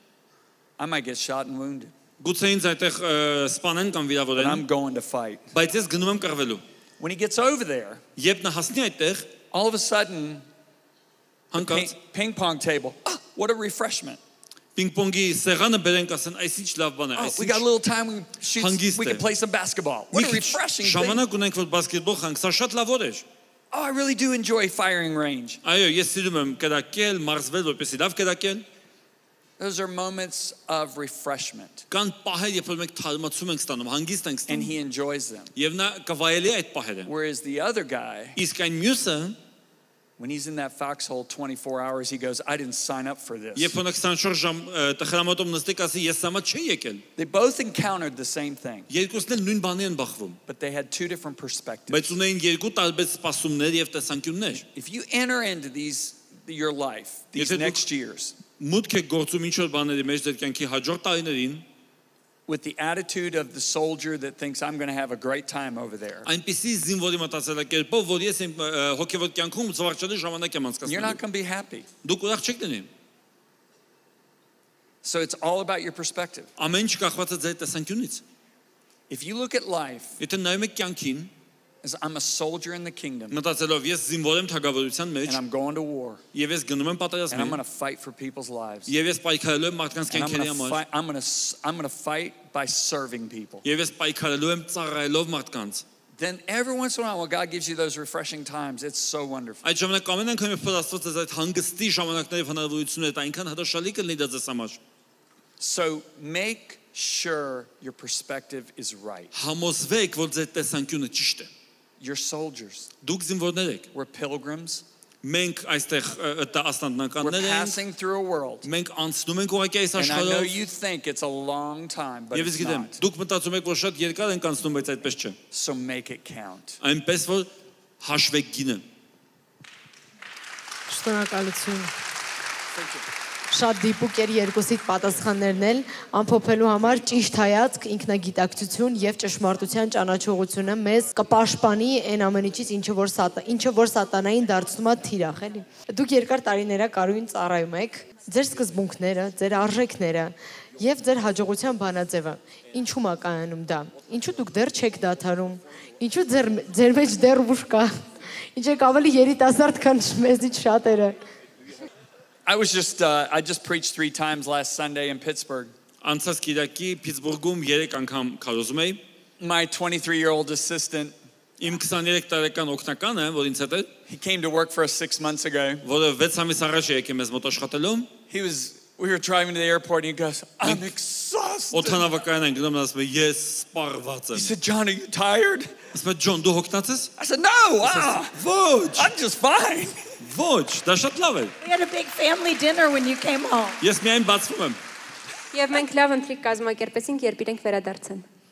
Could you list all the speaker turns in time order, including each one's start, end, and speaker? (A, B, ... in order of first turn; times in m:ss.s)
0:00.8-0:01.9 A
0:02.2-0:04.6 B
0:04.4-0:05.5 A
0:05.5-0:06.6 B
0:07.0-0:08.1 A
0:08.2-0:09.3 B
0:09.5-0:10.5 A
0:11.5-0:11.9 B
0:11.5-0:14.2 A
0:14.8-0:17.6 B
0:17.2-0:21.2 A
0:18.6-0:19.2 B
0:20.1-0:23.2 B
0:23.7-0:25.6 A
0:25.6-0:28.6 B
0:29.6-0:31.9 A
0:31.9-0:34.7 B
0:34.5-0:35.5 A
0:35.6-0:37.1 B
0:37.1-0:38.4 A
0:38.4-0:39.4 B
0:40.2-0:43.8 A
0:43.6-0:47.0 B
0:47.2-0:48.9 A
0:48.9-0:50.4 B
0:50.5-0:52.1 A
0:51.9-0:54.6 B
0:54.7-0:58.4 A
0:57.4-0:57.8 B
0:58.5-1:01.6 B
1:02.5-1:06.3 A
1:06.2-1:11.2 B
1:10.8-1:11.9 A
1:12.0-1:12.9 B
1:15.0-1:16.5 A
1:16.6-1:18.2 B
1:19.1-1:20.2 A
1:20.2-1:21.3 B
1:21.8-1:23.4 A
1:23.3-1:25.4 B
1:25.3-1:26.2 A
1:26.3-1:27.6 B
1:27.3-1:28.9 A
1:28.9-1:30.8 B
1:30.1-1:33.6 A
1:33.6-1:35.8 B
1:36.2-1:39.6 A
1:39.6-1:44.8 B
1:45.6-1:49.3 A
1:49.3-1:51.5 B
1:52.0-1:52.9 A
1:53.0-1:53.9 B
1:53.9-1:54.8 A
1:55.2-1:57.8 B
1:57.2-1:58.7 A
1:58.6-2:00.5 B
2:00.0-2:03.0 A
2:02.3-2:05.4 B
2:05.5-2:06.8 A
2:06.8-2:07.5 B
2:08.0-2:08.8 B
2:10.9-2:11.9 C
2:13.5-2:38.0 C
2:38.5-2:41.2 C
2:42.5-2:45.7 A
2:46.0-2:49.0 B
2:49.4-2:51.2 A
2:51.6-2:53.9 B
2:54.1-2:55.8 A
2:55.8-2:58.1 B
2:58.3-3:02.1 A
3:01.7-3:04.5 B
3:04.3-3:05.8 A
3:05.9-3:07.1 B
3:07.2-3:08.4 A
3:07.8-3:09.1 B
3:08.9-3:10.2 A
3:10.2-3:11.5 B
3:11.6-3:13.8 D
3:13.8-3:14.8 B
3:15.5-3:18.2 E